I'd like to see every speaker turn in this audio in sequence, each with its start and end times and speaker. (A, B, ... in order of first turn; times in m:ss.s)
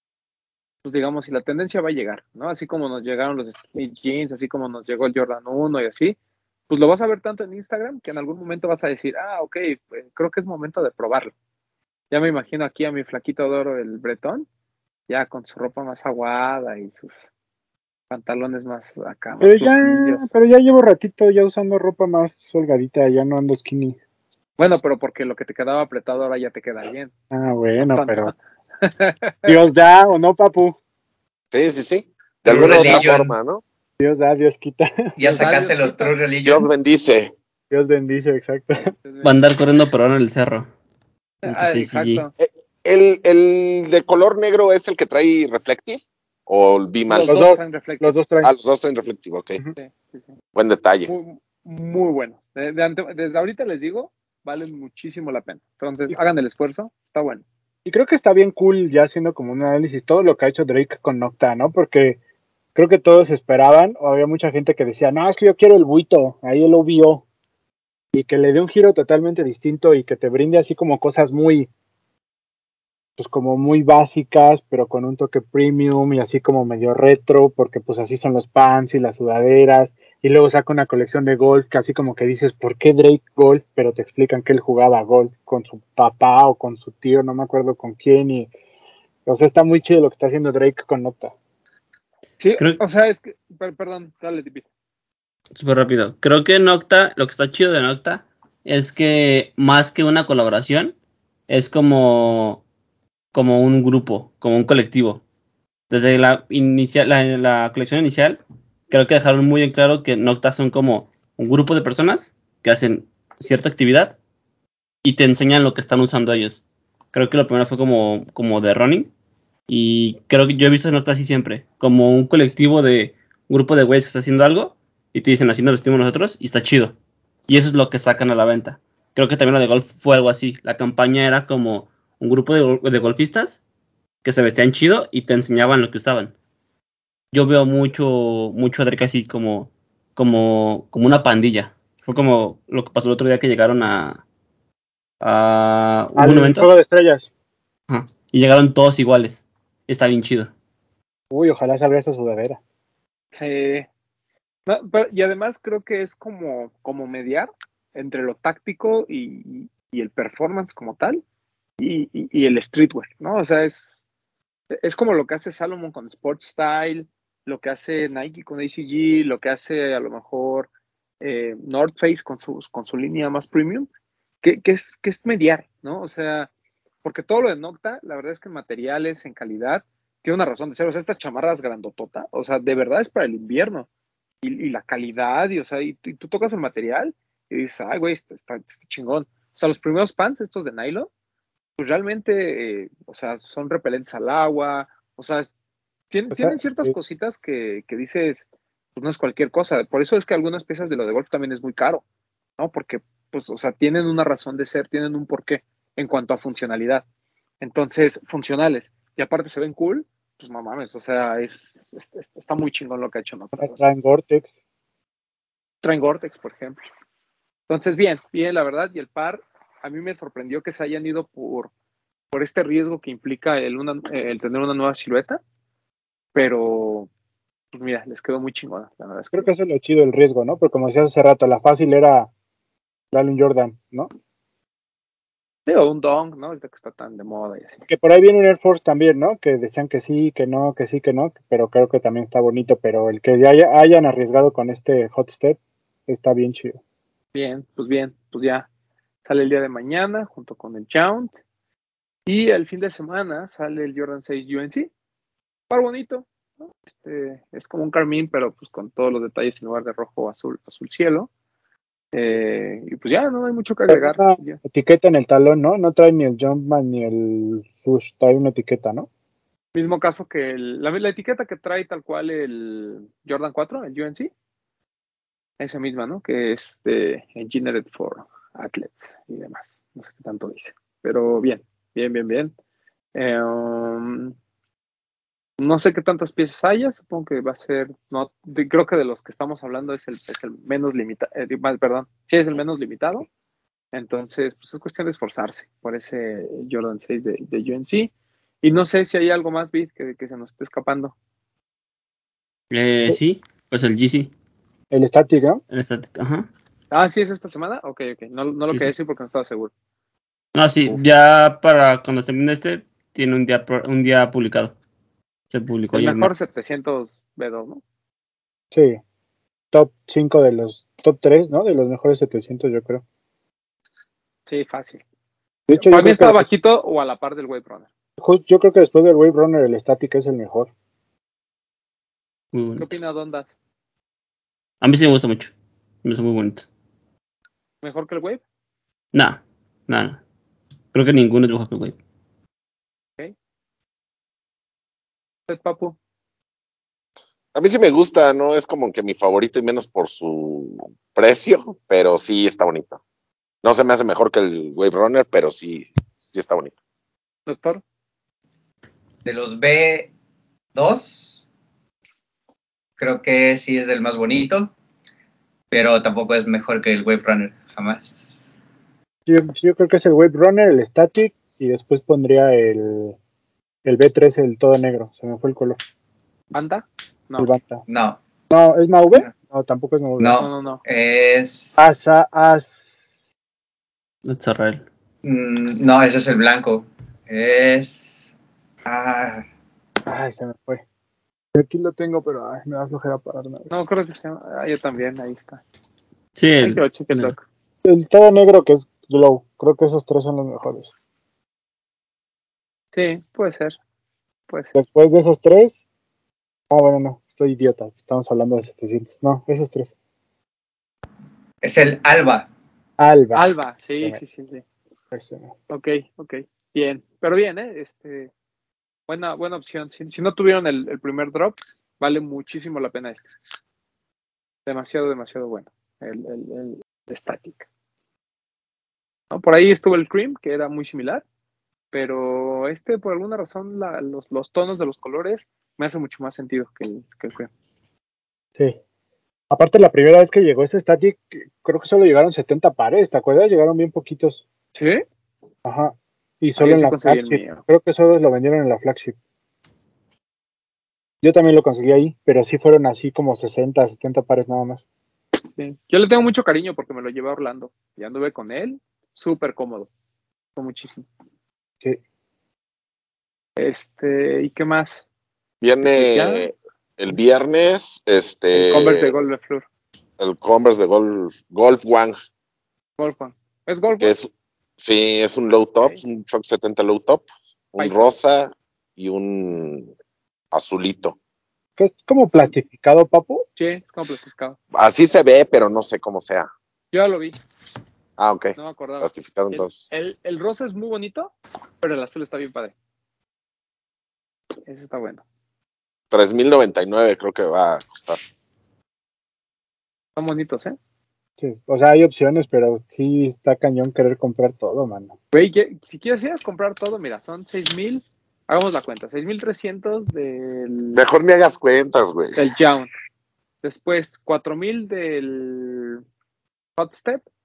0:00.8-0:06.2 A
0:06.7-0:11.3 A
0:12.1-0:14.5 A
0:15.1-0:17.2 A
0:18.1-0:20.3 A
0:19.4-0:24.0 B
0:24.6-0:27.1 A
0:27.3-0:28.3 B
0:27.8-0:29.6 A
0:29.5-0:30.8 B
0:31.5-0:33.6 C
0:32.5-0:33.4 D
0:32.5-0:33.1 B
0:34.0-0:35.2 B
0:35.2-0:36.7 D
0:35.2-0:36.1 A
0:36.4-0:37.3 C
0:37.7-0:38.9 B
0:39.0-0:39.3 A
0:39.2-0:40.7 E
0:41.4-0:42.3 A
0:41.5-0:42.2 E
0:42.4-0:47.5 C
0:47.1-0:48.1 A
0:47.3-0:48.5 B
0:48.4-0:49.6 C
0:49.8-0:50.4 A
0:50.6-0:51.1 C
0:51.0-0:57.4 A
0:57.8-1:02.2 B
1:02.8-1:07.2 B
1:08.1-1:11.7 B
1:13.2-1:28.5 B
1:29.3-1:31.3 B
1:32.4-1:34.6 A
1:35.6-1:41.0 E
1:41.5-1:42.6 E
1:43.3-1:45.2 E
1:45.9-1:54.2 E
1:55.0-1:56.6 E
1:57.1-1:59.1 E
1:59.7-2:07.0 E
2:07.5-2:13.6 E
2:14.2-2:16.3 E
2:17.3-2:24.2 E
2:25.2-2:26.7 E
2:26.2-2:27.3 B
2:27.9-2:30.5 E
2:31.3-2:32.6 B
2:33.3-2:33.9 A
2:34.7-2:41.2 A
2:41.8-2:44.0 A
2:44.7-2:50.7 A
2:51.2-2:53.9 A
2:54.4-2:56.5 A
2:57.0-3:03.9 A
3:04.4-3:11.1 A
3:11.8-3:15.5 A
3:16.1-3:22.0 A
3:16.3-3:16.9 B
3:22.6-3:27.0 A
3:27.6-3:33.8 A
3:33.6-3:34.6 B
3:35.8-3:36.8 A
3:37.7-3:41.7 A
3:42.3-3:45.4 A
3:46.4-3:47.1 A
3:47.7-3:49.5 A
3:49.3-3:52.3 B
3:53.1-3:54.1 B
3:55.7-3:57.8 A
3:57.9-4:06.8 B
4:07.3-4:08.7 A
4:09.2-4:11.3 A
4:12.3-4:14.9 A
4:15.7-4:21.3 A
4:22.1-4:24.6 A
4:23.9-4:29.1 B
4:29.8-4:34.3 A
4:35.6-4:42.5 A
4:43.1-4:44.4 A
4:45.6-4:53.3 A
4:53.9-4:58.1 A
4:58.6-5:01.1 A
5:02.7-5:04.3 E
5:04.9-5:05.6 B
5:05.7-5:06.5 E
5:06.9-5:09.7 A
5:10.6-5:14.8 E
5:15.5-5:16.3 E
5:15.9-5:17.8 A
5:18.7-5:19.0 B
5:19.7-5:23.0 B
5:24.5-5:25.0 A
5:25.7-5:26.5 B
5:25.8-5:27.9 A
5:28.2-5:30.7 B
5:32.5-5:33.0 E
5:32.8-5:33.5 A
5:34.8-5:35.5 E
5:36.0-5:36.7 E
5:37.8-5:38.4 A
5:39.1-5:40.2 E
5:40.9-5:42.0 E
5:45.5-5:46.0 A
5:47.5-5:53.0 C
5:53.6-5:56.7 C
5:57.5-5:57.8 A
5:59.2-6:00.1 D
6:00.8-6:01.4 D
6:03.0-6:04.7 D
6:05.7-6:08.6 D
6:09.3-6:13.2 B
6:13.8-6:15.8 B
6:16.5-6:17.6 A
6:17.4-6:17.8 B
6:17.9-6:18.2 D
6:18.5-6:20.4 B
6:20.2-6:21.9 D
6:20.4-6:20.8 A
6:21.8-6:22.8 B
6:24.2-6:24.8 E
6:25.2-6:28.3 D
6:28.8-6:29.5 D
6:30.1-6:30.8 B
6:31.5-6:33.7 B
6:33.7-6:35.6 A
6:36.4-6:37.3 E
6:36.6-6:37.4 A
6:37.8-6:40.9 B
6:42.9-6:43.8 A
6:44.7-6:45.8 B
6:46.7-6:49.9 B
6:51.6-6:52.5 D
6:53.0-6:54.2 B
6:53.3-6:54.6 A
6:55.1-6:55.5 B
6:55.7-6:58.3 A
6:59.1-7:03.4 A
7:04.7-7:07.7 A
7:09.3-7:11.2 A
7:11.9-7:17.5 A
7:19.5-7:24.4 B
7:24.8-7:25.0 A
7:25.6-7:29.2 B
7:26.6-7:27.6 A
7:31.2-7:34.8 B
7:35.6-7:39.9 A
7:40.6-7:41.1 A
7:43.6-7:45.0 A
7:45.6-7:49.1 C
7:45.8-7:46.5 A
7:48.5-7:49.6 A
7:50.2-7:52.2 C
7:53.0-7:54.1 A
7:54.0-7:59.9 C
7:57.8-7:58.2 A
8:00.5-8:01.2 C
8:01.8-8:03.5 B
8:03.6-8:04.6 A
8:04.7-8:06.5 C
8:06.9-8:07.4 A
8:08.2-8:09.8 C
8:08.6-8:12.7 A
8:14.7-8:15.2 A
8:16.1-8:18.2 C
8:20.2-8:20.8 A
8:21.4-8:25.1 B
8:25.3-8:31.0 A
8:30.9-8:32.5 C
8:32.4-8:32.9 A
8:33.6-8:36.0 A
8:36.8-8:37.2 A